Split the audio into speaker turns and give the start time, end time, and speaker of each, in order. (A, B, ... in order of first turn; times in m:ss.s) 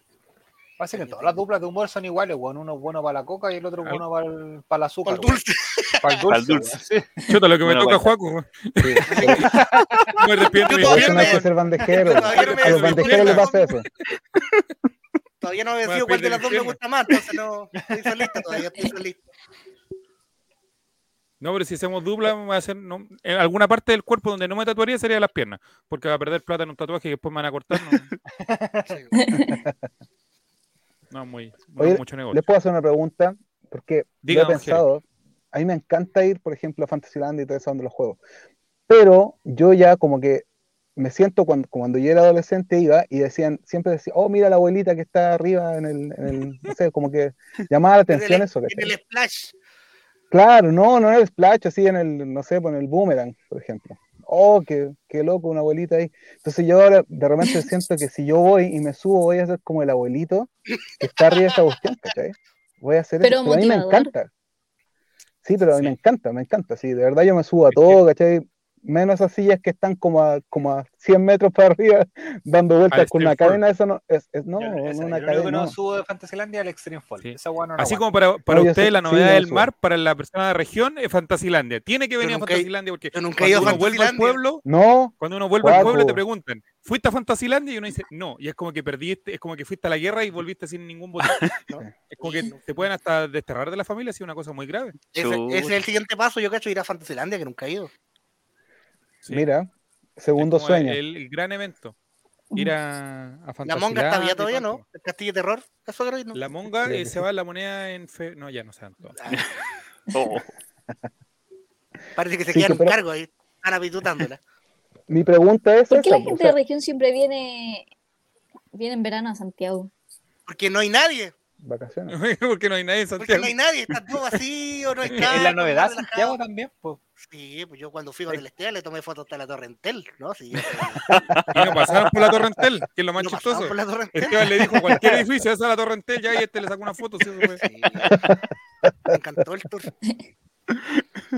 0:00.8-0:05.4 A
0:00.9-0:01.4 B
0:05.1-0:06.2 B
0:06.0-0:07.3 A
0:06.3-0:06.8 C
0:07.3-0:09.5 D
0:07.6-0:08.1 C
0:08.8-0:09.5 E
0:09.1-0:09.6 B
0:09.4-0:09.8 A
0:10.2-0:11.5 D
0:10.6-0:13.8 B
0:10.8-0:13.9 E
0:12.1-0:13.5 D
0:14.4-0:14.6 C
0:15.4-0:19.2 B
0:15.8-0:16.8 D
0:21.4-0:28.1 D
0:28.4-0:29.0 A
0:28.9-0:29.1 B
0:29.2-0:29.6 F
0:31.1-0:32.4 D
0:31.8-0:38.2 E
0:34.2-0:34.8 D
0:38.9-0:48.9 E
0:48.1-0:49.6 B
0:50.3-1:04.3 E
1:03.2-1:04.1 F
1:05.4-1:15.8 E
1:05.7-1:06.0 D
1:07.7-1:08.0 D
1:12.9-1:13.6 D
1:14.6-1:18.0 A
1:17.2-1:24.6 D
1:18.5-1:19.7 E
1:22.2-1:24.4 B
1:24.6-1:26.2 E
1:25.2-1:31.5 D
1:31.2-1:31.6 C
1:31.7-1:32.9 B
1:32.1-1:35.0 D
1:35.2-1:37.9 B
1:35.2-1:35.8 C
1:39.3-1:41.0 E
1:40.4-1:42.0 D
1:42.6-1:44.8 D
1:43.6-1:46.4 B
1:46.3-1:49.2 D
1:46.8-1:47.2 E
1:49.2-1:49.5 B
1:50.1-1:50.5 C
1:52.2-1:54.4 B
1:52.5-1:52.9 E
1:55.1-1:56.6 E
1:55.9-1:57.9 F
1:58.7-1:59.9 F
2:00.5-2:01.3 B
2:01.6-2:02.2 E
2:02.1-2:03.5 D
2:03.2-2:06.4 B
2:05.1-2:05.4 D
2:05.2-2:07.0 A
2:07.2-2:11.1 B
2:11.0-2:12.0 C
2:11.5-2:17.6 D
2:11.6-2:12.6 E
2:13.2-2:14.9 B
2:17.6-2:18.2 B
2:18.1-2:18.4 E
2:19.1-2:19.9 B